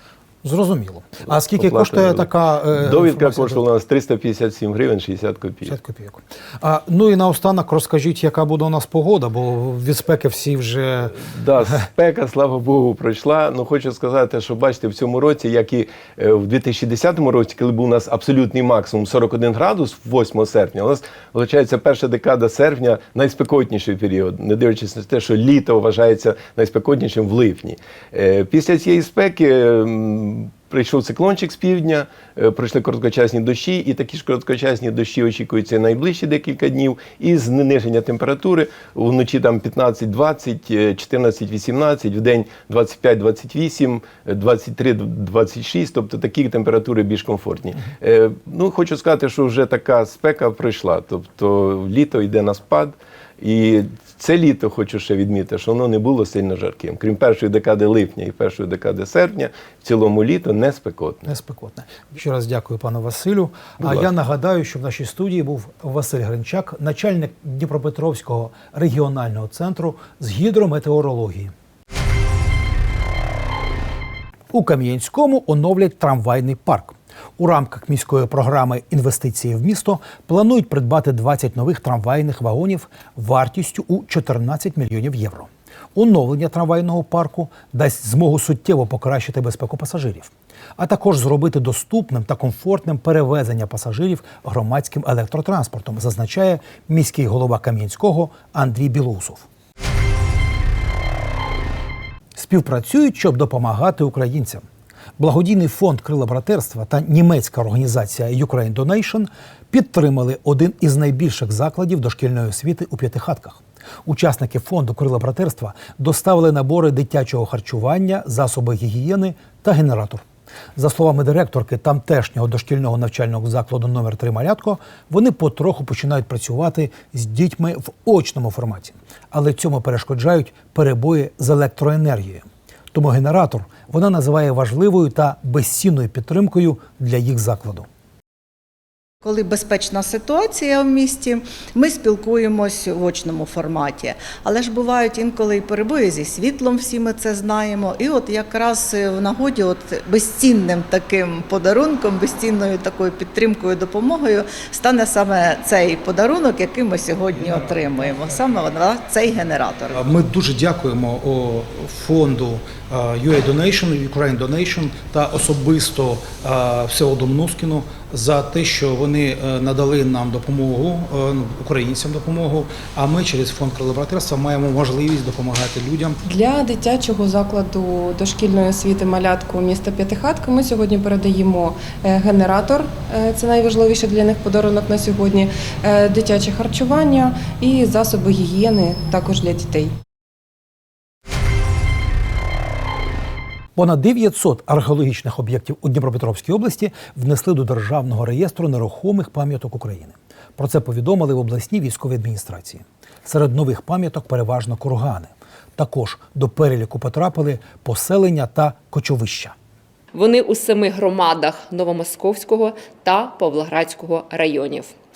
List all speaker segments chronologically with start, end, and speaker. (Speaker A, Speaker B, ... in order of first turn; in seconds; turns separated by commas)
Speaker A: 0.4-3.6, Speaker B: 1.4-5.7, Speaker A: 5.6-11.8, Speaker B: 11.2-61.3, Speaker A: 61.2-71.5, Speaker B: 63.8-64.1, Speaker A: 74.5-99.5, Speaker A: 102.3-104.6, Speaker A: 105.2-120.2, Speaker A: 120.8-137.8, Speaker C: 139.2-160.0, Speaker A: 159.9-176.2, Speaker D: 176.2-189.9, Speaker A: 193.8-209.5, Speaker E: 210.1-214.9